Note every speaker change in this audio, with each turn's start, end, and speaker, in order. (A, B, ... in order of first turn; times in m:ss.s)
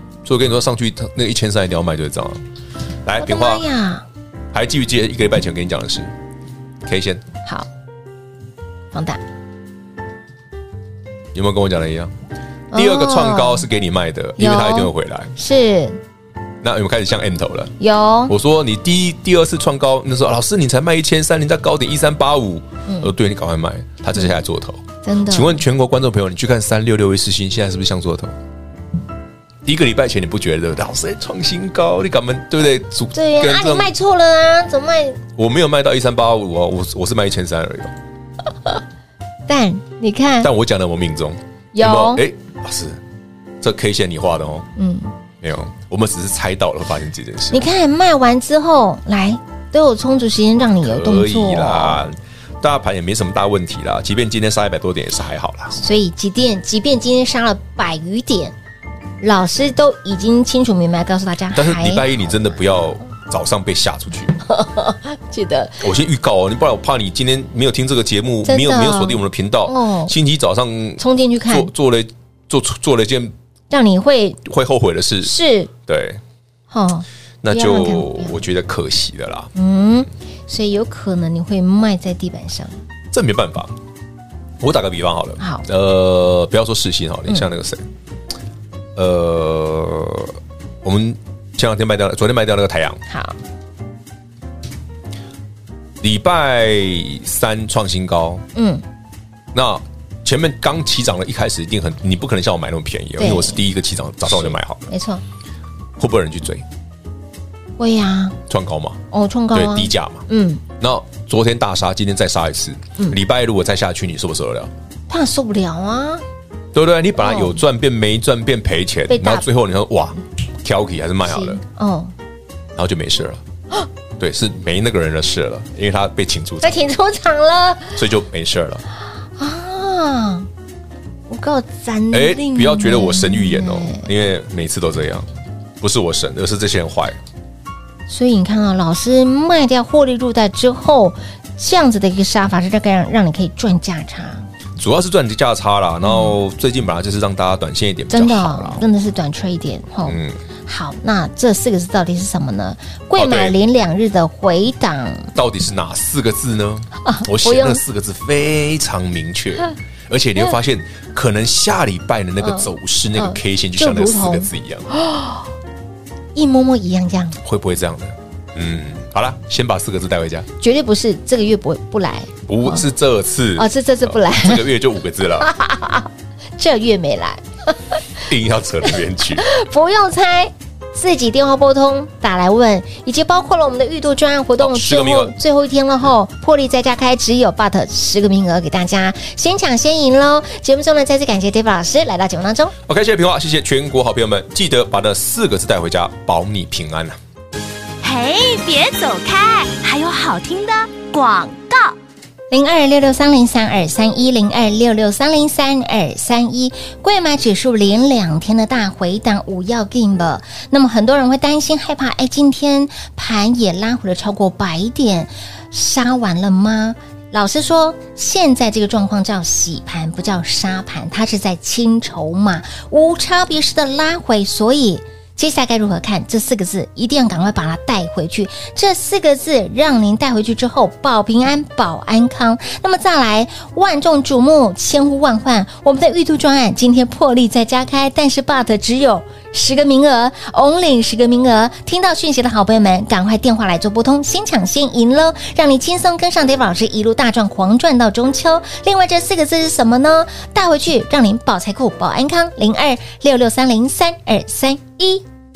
0:00.2-0:02.4 A
0:03.0-0:03.6 A
0:03.2-0:04.1 B
0:04.5-0:06.1 A
0:06.8-0:07.2 A
0:08.9-0:09.2 B
0:11.3-0:12.1 A
0:12.7-0:13.7 B
0:12.7-0:15.4 A
0:14.4-0:16.0 B
0:16.6-0:17.7 A
0:17.8-0:18.3 B
0:18.3-0:28.3 A
0:22.9-0:23.1 B
0:25.0-0:25.6 B
0:29.6-0:33.9 A
0:33.1-0:35.2 B
0:35.4-0:37.9 A
0:39.5-0:40.5 B
0:40.4-0:43.0 A
0:41.7-0:42.2 B
0:43.6-0:44.7 A
0:44.8-0:45.1 B
0:45.4-0:47.7 A
0:47.5-0:52.0 B
0:50.8-0:55.8 A
0:55.7-0:58.6 B
0:59.2-1:02.5 B
1:01.5-1:04.4 A
1:04.5-1:05.8 B
1:05.8-1:13.3 A
1:08.5-1:10.2 B
1:11.0-1:11.7 B
1:13.7-1:14.4 B
1:14.4-1:16.2 A
1:15.2-1:15.7 B
1:16.7-1:18.4 B
1:17.4-1:19.5 A
1:19.6-1:22.8 B
1:23.1-1:23.7 A
1:24.6-1:27.8 A
1:25.4-1:25.7 B
1:29.0-1:33.0 A
1:33.1-1:33.4 B
1:36.0-1:38.4 A
1:38.6-1:38.8 B
1:39.5-1:44.9 A
1:43.2-1:43.6 B
1:44.3-1:45.2 B
1:46.0-1:46.6 A
1:47.8-1:48.4 B
1:48.5-1:49.0 A
1:49.1-1:50.6 B
1:49.5-1:50.3 A
1:50.8-1:54.7 A
1:55.1-1:56.2 B
1:56.7-2:01.6 A
1:57.2-1:57.6 B
1:59.1-1:59.5 B
2:01.2-2:02.1 B
2:02.8-2:03.4 A
2:04.2-2:06.9 A
2:06.6-2:08.0 B
2:08.0-2:08.8 A
2:09.4-2:10.5 B
2:11.3-2:14.1 B
2:12.1-2:15.3 A
2:15.8-2:17.2 A
2:18.1-2:24.5 B
2:24.8-2:28.8 A
2:26.0-2:26.4 B
2:28.1-2:35.3 B
2:30.1-2:30.4 A
2:33.2-2:33.6 A
2:35.4-2:44.9 A
2:37.0-2:37.8 B
2:42.4-2:45.4 B
2:46.4-2:47.4 B
2:47.4-2:50.5 A
2:50.6-2:52.8 B
2:52.5-2:55.5 A
2:53.6-2:54.7 B
2:55.4-2:58.0 B
2:58.2-2:59.4 A
2:59.4-3:12.8 B
3:04.6-3:05.3 A
3:12.9-3:17.2 A
3:18.0-3:22.0 C
3:22.5-4:15.2 B